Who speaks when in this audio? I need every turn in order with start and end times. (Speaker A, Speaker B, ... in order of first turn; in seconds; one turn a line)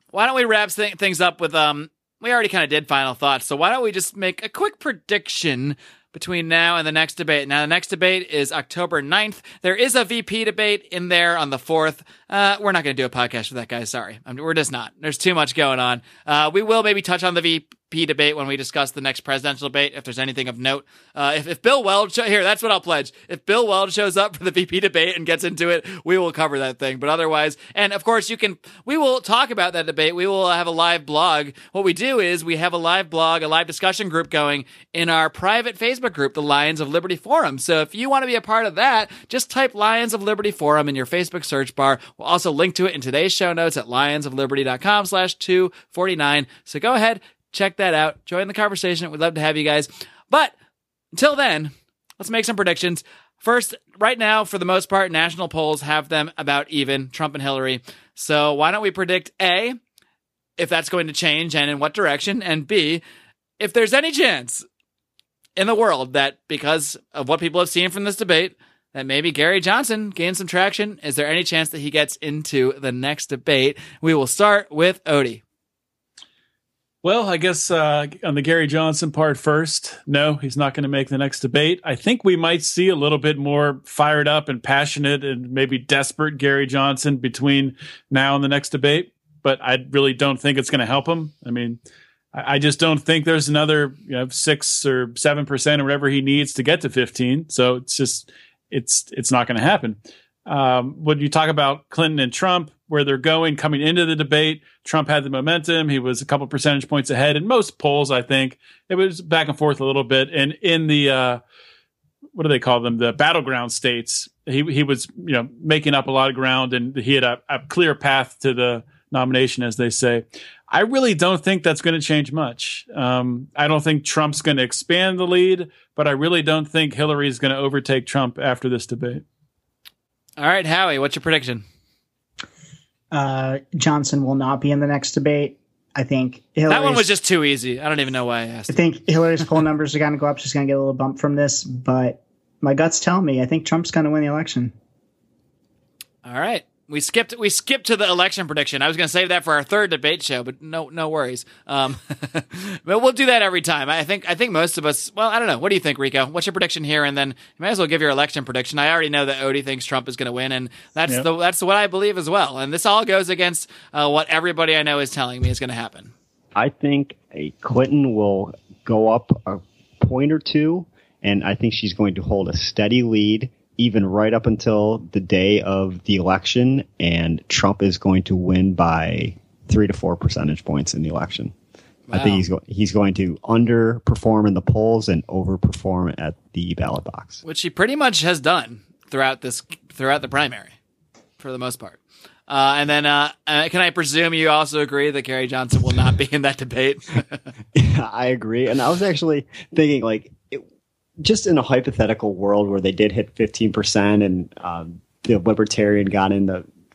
Speaker A: 0.1-50.5
Speaker A: 51.1-59.8
Speaker A: 60.6-63.0
Speaker A: 63.6-64.7
Speaker A: 65.6-75.4
Speaker B: 77.0-91.8
Speaker B: 92.3-111.4
Speaker B: 112.3-129.2
Speaker A: 130.4-131.6
Speaker C: 133.1-137.1
Speaker A: 136.7-138.8
Speaker C: 138.7-144.7
Speaker A: 146.2-166.1
Speaker D: 166.6-181.5
Speaker A: 182.1-182.4
Speaker D: 182.1-187.4
Speaker A: 187.4-190.8
Speaker A: 191.4-197.4
Speaker D: 197.8-200.7
Speaker D: 201.2-206.7